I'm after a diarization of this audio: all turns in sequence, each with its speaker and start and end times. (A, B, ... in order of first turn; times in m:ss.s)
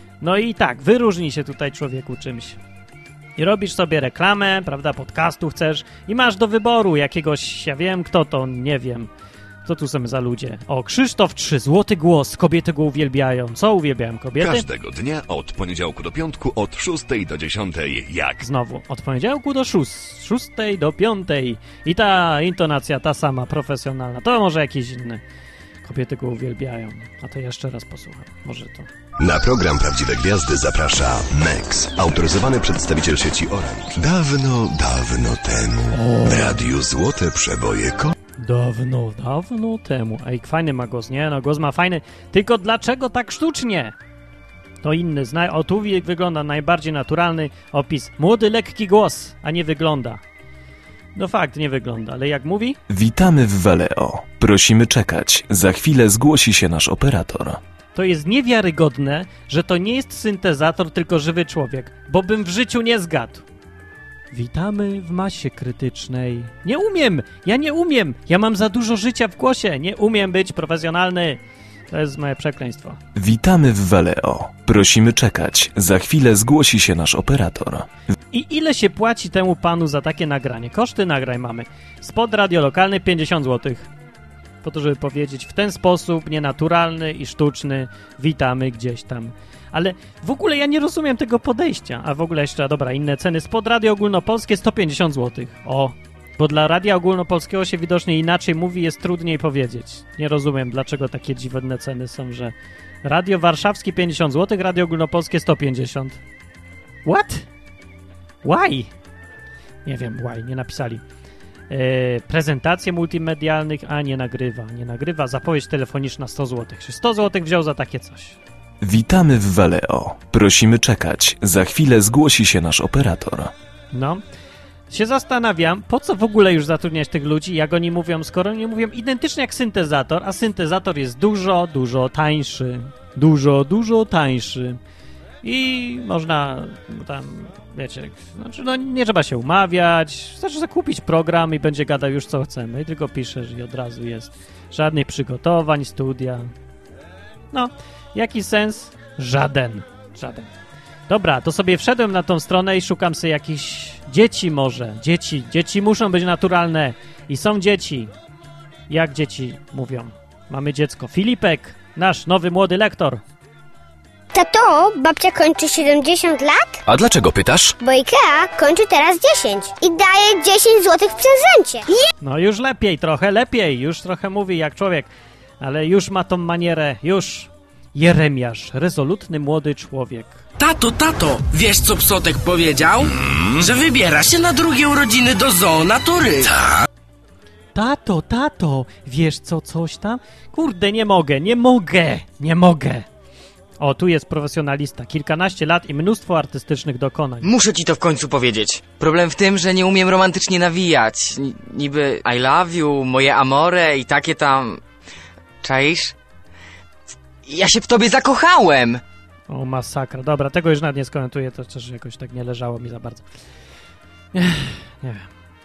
0:00.2-0:02.6 A
0:03.4-0:09.1 A
0:09.6-0:14.6 A
0:14.4-0:18.4 B
0:18.4-0:25.2 A
0:25.8-0:28.9 A
0:29.2-0:38.1 B
0:35.9-0:36.6 A
0:38.4-0:43.9 A
0:44.8-0:50.2 A
0:51.1-0:52.8 A
0:52.9-0:57.6 C
0:57.9-1:03.4 A
1:04.3-1:11.4 A
1:11.9-1:13.0 A
1:13.1-1:17.9 C
1:18.3-1:23.9 A
1:24.6-1:42.5 A
1:43.0-1:46.2 A
1:47.0-1:47.5 A
1:48.4-1:48.9 A
1:49.8-1:51.0 A
1:51.7-1:58.4 A
1:58.8-2:03.5 C
2:03.9-2:04.2 A
2:04.9-2:14.8 A
2:15.4-2:26.5 A
2:27.5-2:30.5 A
2:31.1-2:38.1 A
2:38.9-2:43.2 A
2:44.3-2:46.8 D
2:47.8-2:52.0 D
2:52.2-3:00.4 A
3:00.6-3:06.5 E
3:07.7-3:13.0 A
3:13.8-3:17.5 A
3:17.4-3:24.8 F
3:25.6-3:26.1 F
3:27.4-3:29.0 F
3:29.5-3:33.2 A
3:34.3-3:35.3 A